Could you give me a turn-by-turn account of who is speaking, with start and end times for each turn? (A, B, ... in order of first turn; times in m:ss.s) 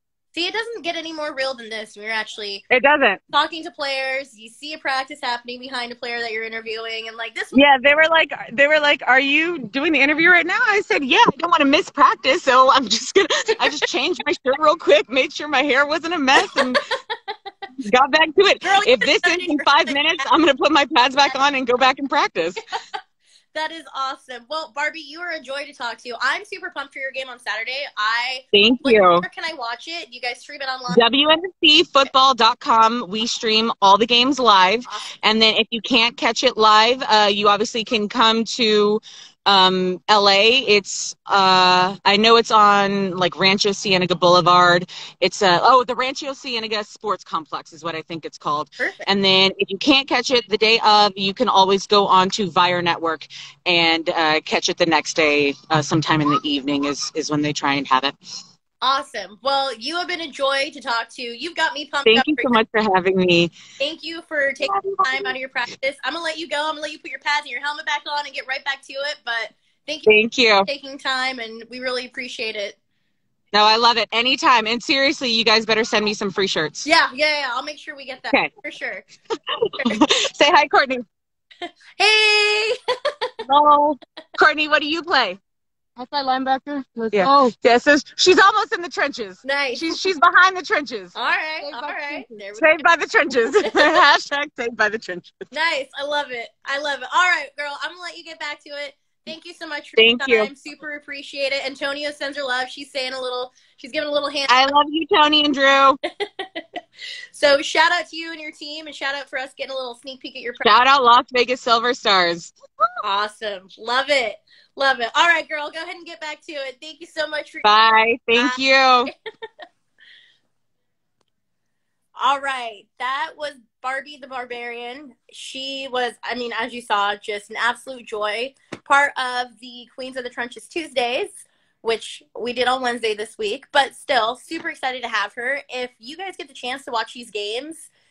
0:00.3-0:02.6 A
0:02.7-0:03.2 B
0:03.3-0:07.6 A
0:07.5-0:16.8 B
0:16.4-0:16.8 A
0:17.8-0:22.6 B
0:18.6-0:20.0 A
0:23.5-0:31.0 A
0:28.5-0:29.2 B
0:30.9-0:58.2 B
0:48.8-0:49.1 A
0:58.8-1:02.6 A
1:02.0-1:03.5 B
1:03.8-1:10.1 A
1:04.6-1:05.3 B
1:10.1-1:10.7 B
1:10.6-1:12.8 A
1:13.5-1:16.9 B
1:16.8-1:19.0 A
1:19.5-1:21.0 B
1:22.0-1:23.3 A
1:23.4-1:25.4 B
1:26.0-1:27.5 C
1:27.1-1:31.1 B
1:29.4-1:30.0 A
1:31.1-1:32.9 A
1:31.6-1:32.4 C
1:32.6-1:35.3 B
1:33.6-1:34.0 A
1:35.5-1:44.6 A
1:40.0-1:40.5 B
1:44.5-1:46.0 B
1:46.2-1:46.8 A
1:47.3-1:50.7 A
1:50.6-1:52.6 B
1:53.0-1:57.7 A
1:57.6-1:59.1 B
2:02.2-2:17.9 A